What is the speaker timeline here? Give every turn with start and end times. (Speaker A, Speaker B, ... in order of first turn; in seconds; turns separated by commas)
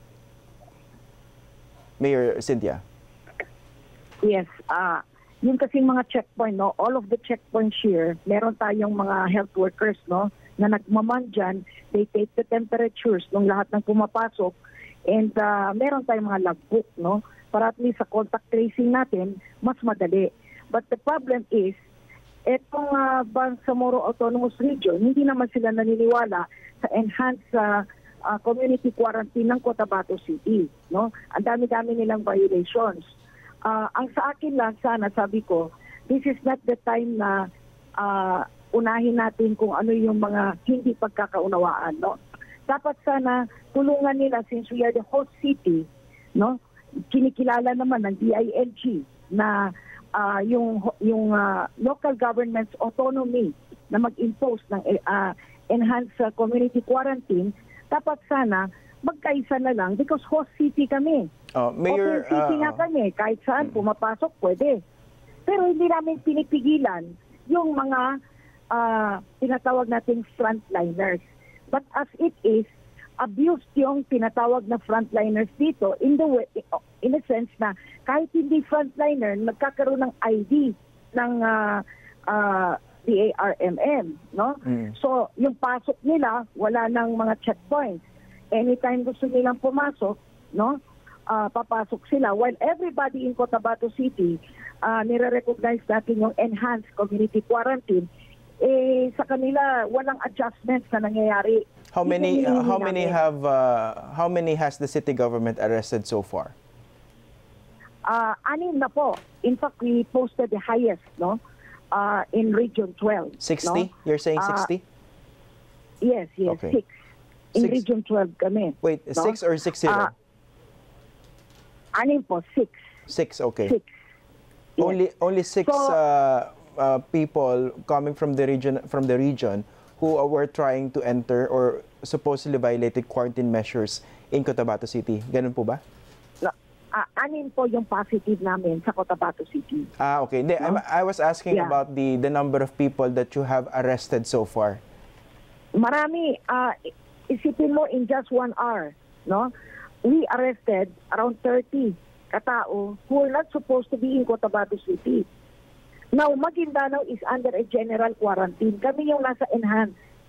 Speaker A: 2.0-2.8, Speaker B: 4.2-14.6, Speaker B: 15.1-21.8, Speaker B: 22.4-33.0, Speaker B: 33.6-37.5, Speaker B: 38.0-42.2, Speaker B: 42.7-61.3, Speaker A: 61.5-62.8, Speaker B: 61.9-64.8, Speaker B: 65.5-68.2, Speaker B: 68.7-72.7, Speaker B: 73.2-98.1, Speaker B: 98.6-103.2, Speaker A: 101.9-106.5, Speaker B: 108.0-111.4, Speaker B: 111.9-114.7, Speaker A: 113.4-114.8, Speaker B: 116.0-116.9, Speaker A: 116.5-116.8, Speaker B: 117.5-120.1, Speaker A: 117.6-117.8, Speaker A: 118.8-120.1, Speaker B: 121.9-122.8, Speaker A: 123.1-123.8, Speaker B: 123.6-123.9, Speaker A: 124.8-135.8, Speaker B: 125.6-126.0, Speaker B: 136.4-139.9, Speaker A: 140.0-144.8, Speaker B: 141.5-141.8, Speaker B: 145.7-149.5, Speaker B: 150.0-155.3, Speaker B: 156.1-159.9